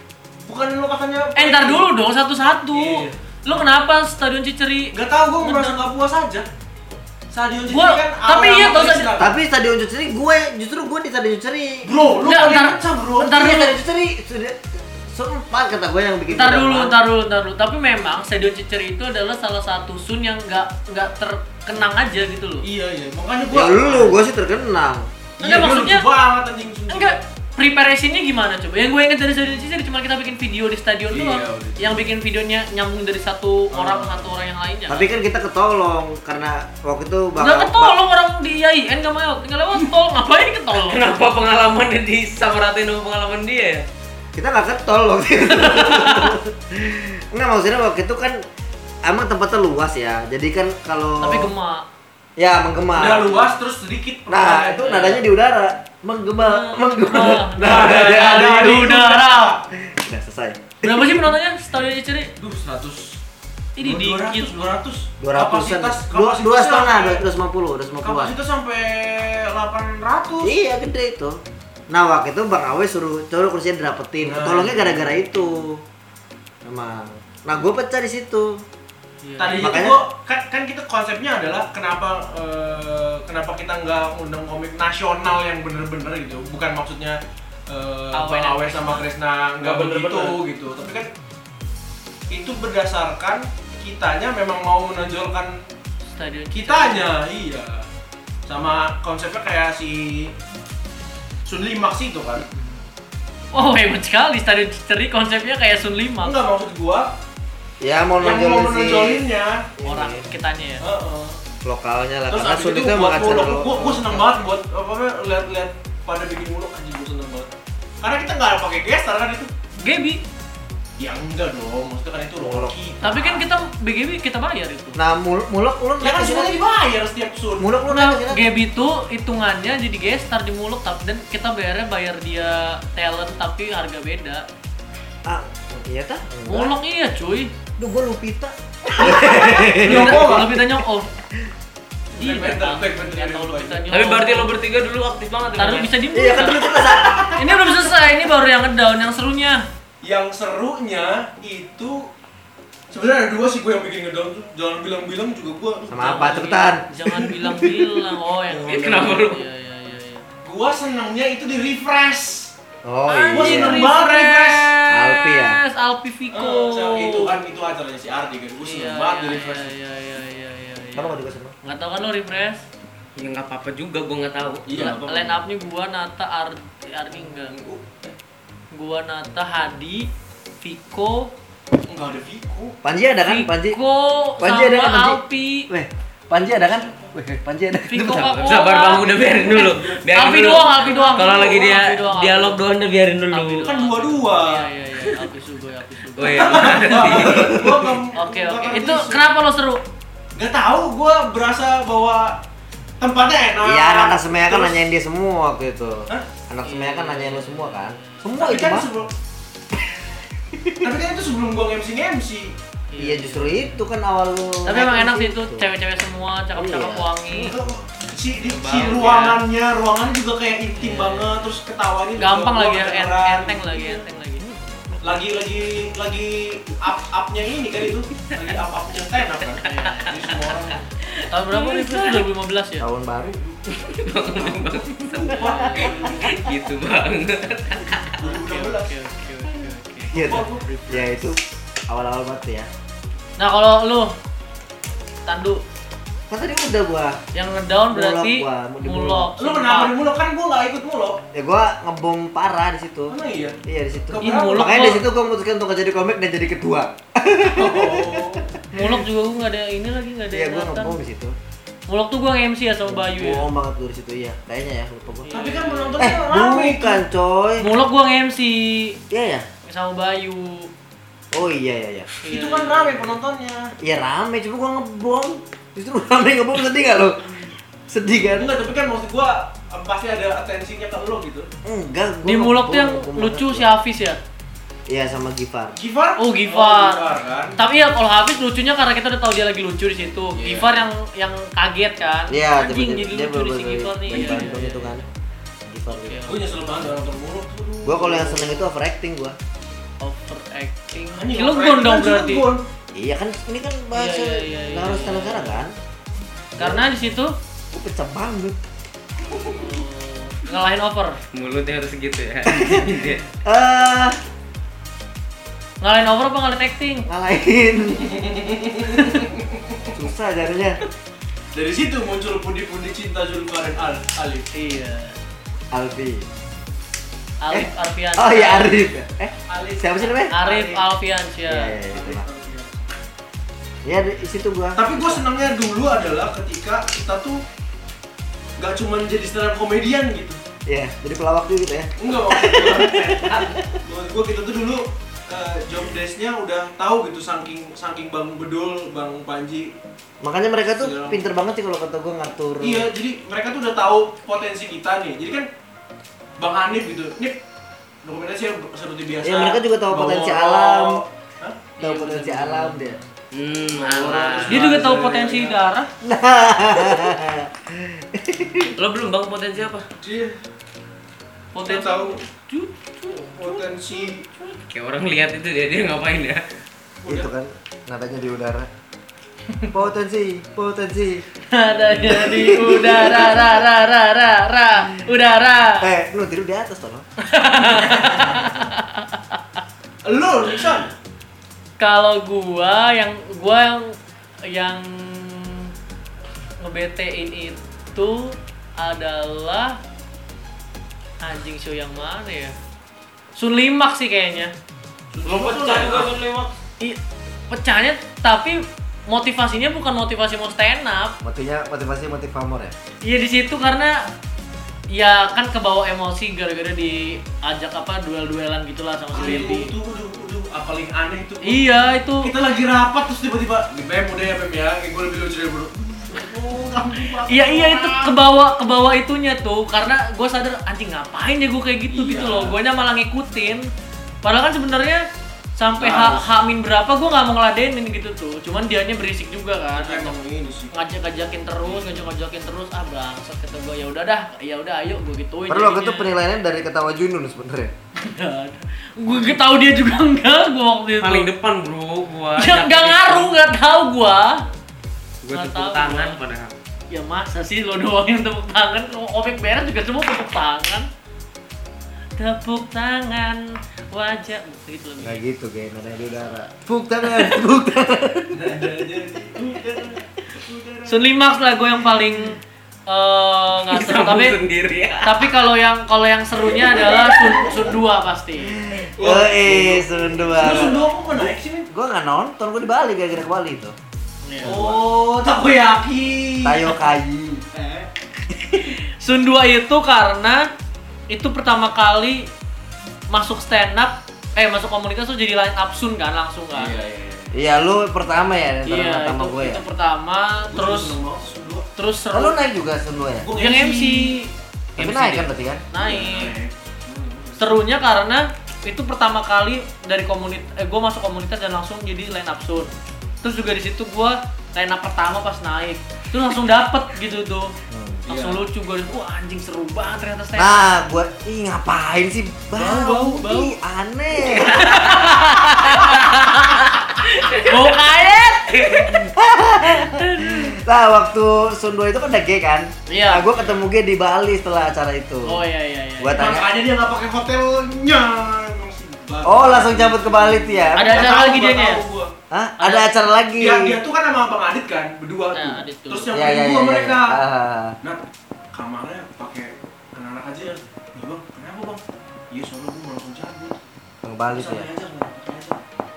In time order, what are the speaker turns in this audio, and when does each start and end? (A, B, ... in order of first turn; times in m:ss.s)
0:00.4-0:01.9 A
0:01.4-0:05.8 B
0:02.7-0:03.6 A
0:04.9-0:06.5 A
0:07.3-0:09.3 A
0:07.7-0:09.1 B
0:09.2-0:11.9 C
0:11.8-0:13.4 A
0:12.2-0:13.7 B
0:13.2-0:17.0 C
0:16.3-0:22.7 B
0:22.6-0:24.2 A
0:23.5-0:25.0 C
0:25.4-0:27.2 A
0:25.4-0:26.1 B
0:26.9-0:35.1 B
0:31.1-0:32.0 A
0:33.7-0:34.3 A
0:34.9-0:38.0 C
0:37.4-0:41.1 B
0:40.9-0:43.8 D
0:44.4-0:48.4 C
0:45.5-0:46.4 B
0:49.0-0:51.5 C
0:51.2-0:51.8 B
0:52.4-0:53.4 C
0:52.9-0:55.2 A
0:54.3-0:58.7 C
0:56.4-0:59.6 B
0:57.6-0:59.6 A
0:59.8-1:01.3 C
1:00.8-1:02.3 B
1:02.4-1:03.2 A
1:03.8-1:04.7 B
1:03.8-1:07.2 A
1:05.2-1:08.4 C
1:08.0-1:10.6 A
1:10.4-1:15.8 C
1:14.2-1:15.2 A
1:16.6-1:18.6 C
1:19.2-1:19.8 B
1:19.4-1:31.1 A
1:19.6-1:20.0 C
1:28.1-1:29.0 B
1:29.6-1:30.4 D
1:32.3-1:35.6 A
1:36.0-1:37.1 B
1:36.5-1:37.8 A
1:38.4-1:40.3 A
1:41.4-1:42.5 A
1:43.5-1:46.4 B
1:46.2-1:47.1 A
1:47.8-1:50.3 C
1:48.2-1:49.7 A
1:49.8-1:50.8 B
1:50.8-1:51.4 A
1:51.6-1:54.4 C
1:52.3-1:57.5 A
1:58.0-1:59.5 A
1:59.8-2:00.2 B
2:01.0-2:03.4 A
2:02.4-2:02.7 C
2:03.0-2:05.0 B
2:05.0-2:06.6 C
2:06.0-2:07.7 A
2:07.6-2:08.5 C
2:07.9-2:14.4 B
2:15.2-2:16.7 C
2:16.5-2:17.5 B
2:17.8-2:20.6 C
2:19.0-2:20.6 A
2:19.0-2:21.1 B
2:22.1-2:24.5 B
2:22.2-2:23.8 A
2:23.9-2:25.9 D
2:25.6-2:29.6 B
2:26.1-2:27.5 C
2:26.8-2:27.4 A
2:30.0-2:32.1 A
2:32.9-2:37.6 A
2:35.9-2:36.8 C
2:36.0-2:40.2 B
2:38.5-2:39.2 A
2:38.7-2:39.4 D
2:40.4-2:42.5 A
2:42.8-2:43.9 C
2:43.1-2:47.4 B
2:43.3-2:44.7 A
2:44.9-2:45.6 C
2:46.3-2:49.7 A
2:48.6-2:52.6 B
2:50.9-2:51.5 C
2:53.2-2:54.8 D
2:54.7-2:55.4 A
2:54.7-2:57.5 B
2:57.4-2:58.1 A
2:58.7-3:00.1 B
3:00.6-3:01.3 B
3:01.9-3:02.8 A
3:02.8-3:03.8 C
3:03.2-3:05.7 B
3:04.4-3:08.4 C
3:06.6-3:07.1 A
3:07.9-3:12.6 B
3:08.3-3:13.7 D
3:09.0-3:11.6 A
3:13.3-3:17.0 B
3:13.6-3:15.1 A
3:16.2-3:17.6 D
3:16.2-3:19.2 A
3:17.2-3:18.0 C
3:18.1-3:19.8 B
3:20.4-3:22.4 A
3:23.0-3:24.8 A
3:23.6-3:28.9 C
3:26.6-3:28.6 B
3:28.4-3:29.1 A
3:30.5-3:30.9 C
3:30.8-3:32.6 A
3:32.9-3:33.8 B
3:33.0-3:35.7 C
3:34.6-3:37.6 B
3:36.5-3:37.7 C
3:37.4-3:44.0 A
3:38.5-3:39.4 D
3:39.0-3:39.3 B
3:40.8-3:41.4 B
3:42.2-3:44.4 B
3:44.4-3:45.2 C
3:45.0-3:50.9 A
3:49.6-3:50.1 B
3:51.3-3:52.9 B
3:51.5-3:52.2 D
3:52.8-3:53.4 C
3:53.7-3:58.2 D
3:54.4-3:56.5 A
3:55.4-3:56.2 B
3:58.2-3:58.9 A
3:58.2-4:00.2 B
4:00.1-4:02.7 C
4:00.1-4:01.0 A
4:03.4-4:04.1 B
4:05.3-4:05.6 B
4:06.3-4:07.2 C
4:07.3-4:10.0 B
4:07.9-4:09.3 C
4:09.4-4:11.2 A
4:11.3-4:18.8 C
4:13.1-4:13.6 A
4:14.1-4:14.8 A
4:14.2-4:15.0 B
4:17.4-4:18.5 A
4:18.7-4:21.0 B
4:20.3-4:21.3 C
4:21.9-4:23.4 B
4:22.8-4:25.3 C
4:25.2-4:26.1 B
4:25.3-4:27.0 A
4:26.0-4:27.7 C
4:27.6-4:29.0 B
4:29.1-4:29.5 C
4:29.6-4:30.7 B
4:31.3-4:32.1 C
4:32.2-4:33.2 B
4:32.2-4:33.7 A
4:33.8-4:38.6 C
4:38.2-4:41.5 A
4:41.6-4:43.7 C
4:42.2-4:44.2 B
4:44.9-4:45.8 C
4:45.8-4:47.6 A
4:46.2-4:47.0 B
4:47.6-4:55.0 B
4:50.3-4:50.7 A
4:52.3-4:55.0 C
4:54.1-4:54.6 A
4:55.7-4:56.2 C
4:55.9-4:56.8 B
4:56.2-4:58.6 A
4:57.8-4:59.4 C
5:00.0-5:02.5 B
5:01.1-5:02.6 A
5:02.9-5:05.7 C
5:03.9-5:05.6 B
5:06.6-5:06.9 C
5:06.6-5:07.3 B
5:07.7-5:08.6 C
5:09.2-5:09.7 A
5:09.5-5:11.2 B
5:11.3-5:13.2 D
5:12.4-5:14.2 C
5:15.8-5:17.0 B
5:17.1-5:18.2 C
5:17.9-5:19.9 A
5:19.9-5:20.8 C
5:21.5-5:24.5 A
5:24.5-5:25.2 B
5:25.7-5:26.2 C
5:27.4-5:28.8 B
5:27.5-5:30.4 C
5:29.5-5:30.9 A
5:30.3-5:31.8 B
5:31.5-5:32.2 C
5:31.9-5:32.8 A
5:33.8-5:34.8 C
5:34.8-5:37.4 A
5:38.6-5:40.4 A
5:40.7-5:43.8 C
5:42.0-5:49.7 A
5:50.2-5:52.9 C
5:50.8-5:51.2 A
5:52.6-5:55.5 A
5:56.4-5:57.4 A
5:58.0-6:01.6 A
5:59.2-6:01.0 C
6:01.8-6:03.1 B
6:01.8-6:03.0 C
6:03.3-6:04.8 D
6:03.7-6:05.6 A
6:04.5-6:05.9 B
6:06.0-6:08.7 C
6:08.8-6:09.8 D
6:10.0-6:10.4 A
6:11.5-6:14.5 B
6:11.6-6:12.2 A
6:13.2-6:14.3 A
6:14.7-6:16.4 D
6:17.0-6:17.3 A
6:17.0-6:18.7 C
6:19.7-6:21.2 C
6:21.5-6:25.8 B
6:21.8-6:22.3 A
6:22.0-6:23.6 C
6:25.8-6:27.0 C
6:27.2-6:29.4 B
6:27.7-6:28.3 A
6:28.2-6:28.5 C
6:30.0-6:30.9 A
6:31.8-6:35.7 B
6:36.6-6:39.8 B
6:41.2-6:42.5 B
6:43.4-6:44.5 B
6:45.1-6:46.1 A
6:45.2-6:46.5 D
6:46.8-6:51.2 B
6:51.2-6:52.7 C
6:53.0-6:54.0 B
6:54.9-6:59.7 B
6:59.1-7:08.2 A
7:01.4-7:02.3 B
7:07.2-7:13.7 B
7:11.9-7:12.6 A
7:14.2-7:15.0 B
7:15.6-7:20.1 B
7:15.7-7:16.3 A
7:19.7-7:20.7 A
7:20.7-7:26.2 B
7:21.6-7:22.0 A
7:25.5-7:27.7 C
7:28.0-7:31.3 B
7:31.0-7:33.3 D
7:32.4-7:34.4 B
7:35.2-7:36.5 D
7:35.3-7:36.2 B
7:36.9-7:40.9 B
7:42.2-7:45.2 B
7:45.0-7:48.6 C
7:48.3-7:51.1 A
7:50.8-7:54.4 B
7:53.7-7:55.5 D
7:55.0-7:58.6 B
7:57.0-7:57.7 A
7:58.5-8:00.9 C
7:59.0-8:01.7 A
8:00.5-8:00.8 B
8:01.7-8:03.7 C
8:04.2-8:04.8 B
8:04.4-8:06.8 A
8:04.4-8:04.8 C
8:06.4-8:07.4 C
8:07.5-8:07.9 A
8:08.5-8:10.5 B
8:11.1-8:12.3 B
8:13.1-8:16.8 B
8:16.5-8:17.3 A
8:17.3-8:19.6 C
8:18.6-8:21.0 B
8:20.5-8:21.7 A
8:21.8-8:22.4 B
8:22.1-8:23.3 C
8:23.2-8:24.1 A
8:23.4-8:24.3 B
8:24.8-8:25.3 D
8:24.8-8:25.6 C
8:25.7-8:26.3 B
8:25.8-8:27.6 A
8:27.4-8:32.7 B
8:33.2-8:37.5 B
8:37.7-8:38.0 C
8:38.1-8:38.4 A
8:38.1-8:40.6 B
8:40.4-8:45.9 C
8:42.5-8:43.6 B
8:44.3-8:48.9 B
8:47.2-8:47.8 D
8:48.7-8:55.4 C
8:49.7-8:50.5 B
8:52.9-8:53.2 B
8:55.2-8:56.2 B
8:56.0-8:56.5 C
8:56.1-9:02.1 A
8:59.2-9:01.2 C
9:00.8-9:01.8 B
9:02.3-9:03.8 C
9:02.6-9:02.9 B
9:03.4-9:07.2 A
9:05.3-9:06.1 B
9:06.1-9:07.8 C
9:07.8-9:13.6 A
9:14.0-9:14.7 C
9:14.3-9:15.6 A